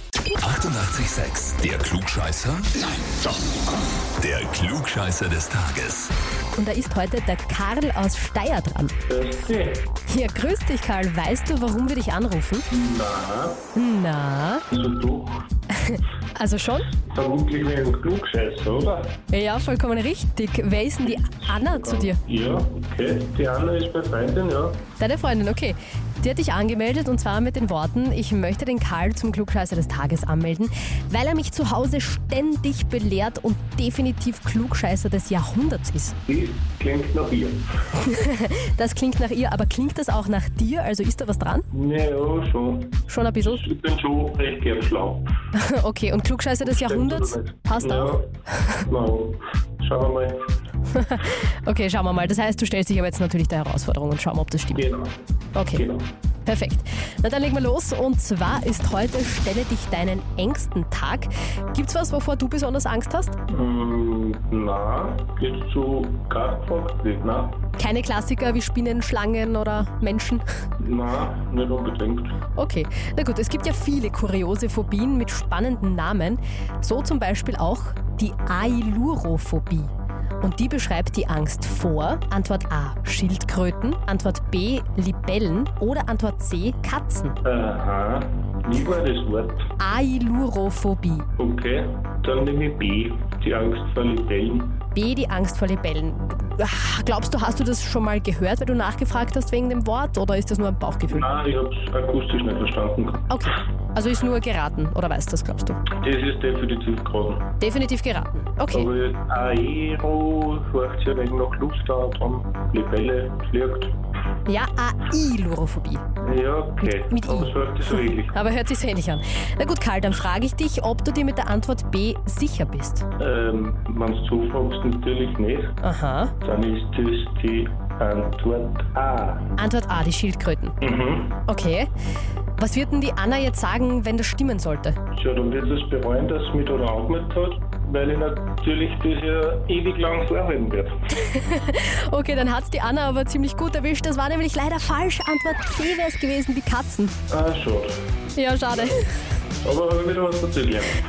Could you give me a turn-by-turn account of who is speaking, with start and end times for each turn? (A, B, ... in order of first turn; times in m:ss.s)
0:00.4-0:03.3 A
0:04.2-0:06.1 A
0:06.5-0:08.9 B
0:09.1-0:09.9 C
0:10.1-0:12.7 B
0:12.7-0:13.6 C
0:13.7-0:14.6 B
0:14.7-0:15.5 C
0:15.7-0:16.9 B
0:17.0-0:19.2 C
0:19.3-0:22.2 B
0:21.1-0:24.8 C
0:25.0-0:36.2 B
0:36.2-0:37.6 C
0:37.9-0:41.7 B
0:41.7-0:45.3 C
0:43.1-0:43.7 B
0:45.5-0:48.8 B
0:46.6-0:50.4 C
0:50.9-0:54.9 B
0:54.7-0:55.2 C
0:55.5-0:55.9 B
0:55.7-0:56.0 C
0:56.4-1:03.4 B
1:03.5-1:07.6 C
1:07.8-1:10.4 B
1:10.8-1:12.4 C
1:12.6-1:27.4 B
1:27.4-1:29.7 C
1:29.8-1:31.3 B
1:31.4-1:34.8 C
1:34.9-1:41.3 B
1:41.0-1:43.3 C
1:43.3-1:45.8 B
1:45.9-1:47.5 C
1:47.6-1:48.9 B
1:48.7-1:54.0 C
1:54.4-1:56.0 B
1:56.2-1:58.4 C
1:56.8-2:03.1 B
2:03.2-2:05.8 C
2:05.8-2:06.3 B
2:06.4-2:09.5 C
2:09.6-2:10.8 B
2:10.8-2:11.4 C
2:11.4-2:11.9 B
2:12.6-2:15.0 B
2:15.1-2:20.9 C
2:21.1-2:27.2 B
2:27.3-2:28.0 C
2:28.3-2:29.2 B
2:29.6-2:31.0 C